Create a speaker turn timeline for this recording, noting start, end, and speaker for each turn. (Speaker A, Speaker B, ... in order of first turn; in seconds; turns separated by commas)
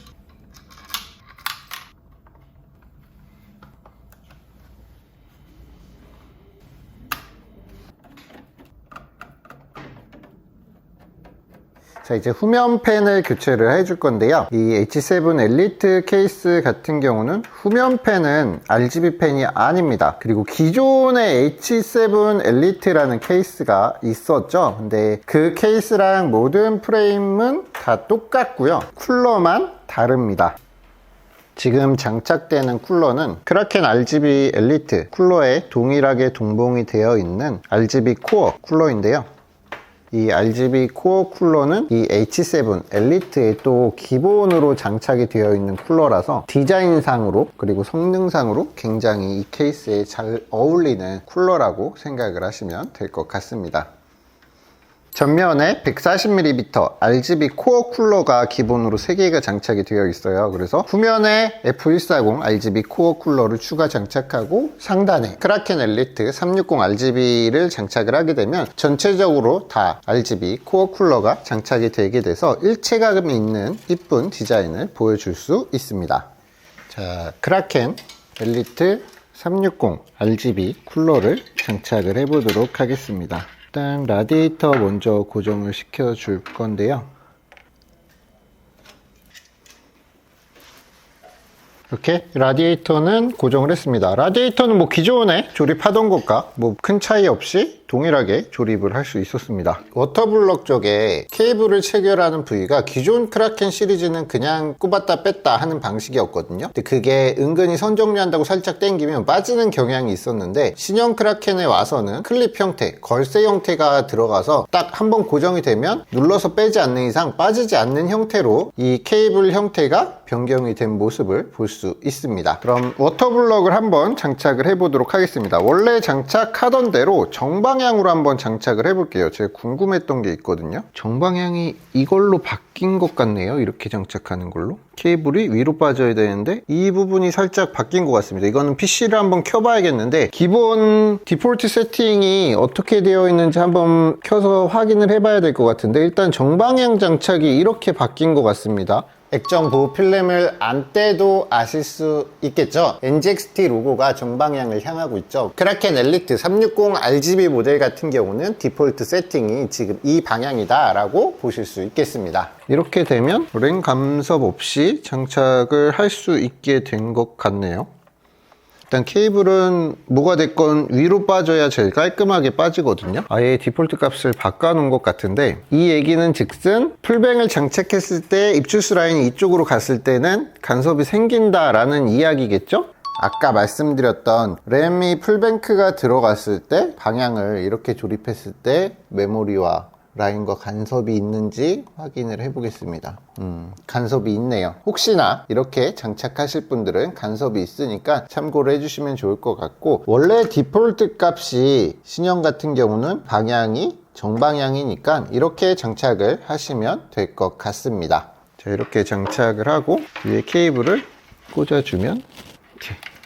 Speaker A: 12.0-30.6, Speaker A: 31.6-39.3, Speaker A: 40.1-53.9, Speaker A: 55.1-76.3, Speaker A: 76.9-87.1, Speaker A: 91.9-167.9, Speaker A: 168.9-212.2